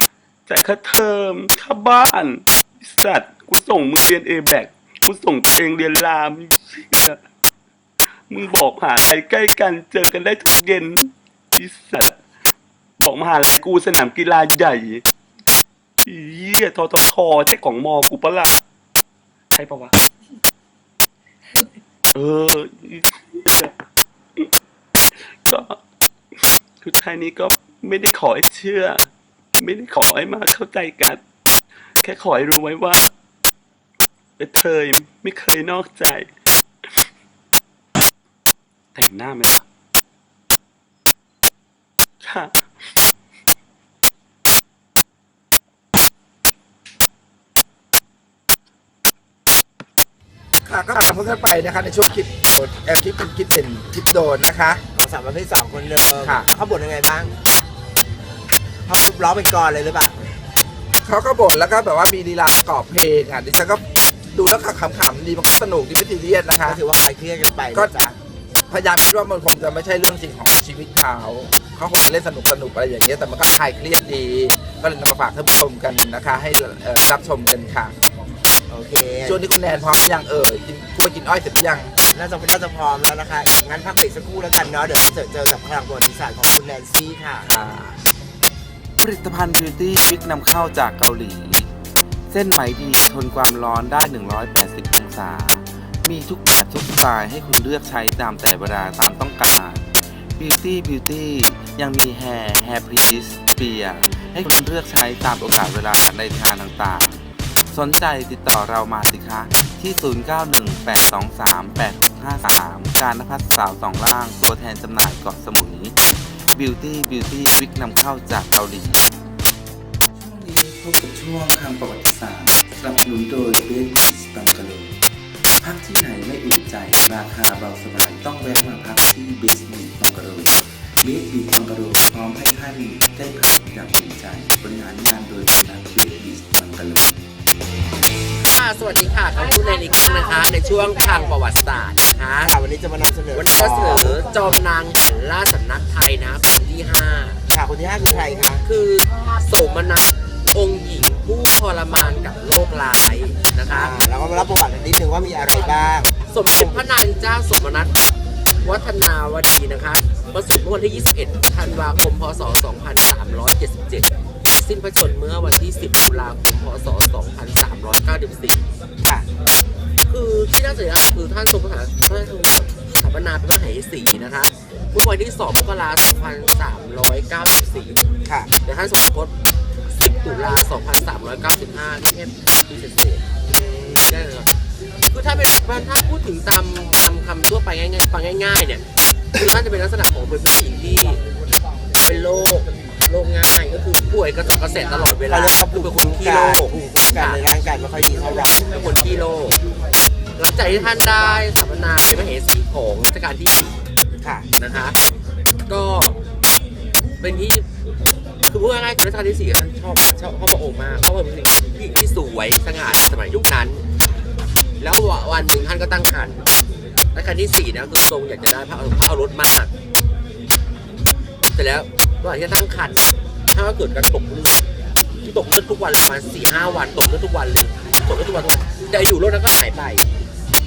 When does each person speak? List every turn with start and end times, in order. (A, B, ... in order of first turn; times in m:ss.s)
0:00.5-0:07.2 A
0:08.3-0:12.2 A
0:13.0-0:15.0 A
0:16.0-0:18.6 A
0:19.5-0:20.0 A
0:22.1-0:23.7 A
0:25.1-0:25.8 A
0:26.8-0:29.0 A
0:29.6-0:31.2 A
0:32.0-0:33.1 A
0:34.4-0:36.3 A
0:38.9-0:39.6 A
0:42.2-0:42.6 A
0:50.6-0:54.8 B
0:54.9-0:57.3 C
0:58.9-1:00.2 C
1:01.0-1:06.8 B
1:06.6-1:08.2 C
1:08.7-1:17.9 B
1:18.7-1:19.4 C
1:19.2-1:21.9 B
1:22.1-1:27.5 C
1:27.4-1:28.0 B
1:29.0-1:31.7 D
1:32.3-1:55.9 D
1:56.5-1:59.1 D
2:00.1-2:05.0 D
2:05.6-2:17.2 D
2:18.4-2:22.5 E
2:22.4-2:24.2 C
2:23.3-2:27.4 E
2:27.5-2:28.6 C
2:28.6-2:33.9 E
2:33.7-2:36.1 C
2:36.3-2:38.0 E
2:38.6-2:48.7 E
2:50.1-2:58.0 E
2:58.2-2:58.5 C
2:58.6-2:59.3 E
2:59.9-3:04.5 E
3:05.1-3:11.2 E
3:12.0-3:17.4 E
3:15.3-3:18.7 C
3:18.6-3:19.6 E
3:20.4-3:23.8 E
3:24.6-3:25.0 E
3:25.7-3:26.2 E
3:27.2-3:27.6 E
3:28.5-3:33.8 E
3:34.8-3:36.4 E
3:37.1-3:39.7 E
3:41.5-3:44.6 E
3:45.2-3:50.1 E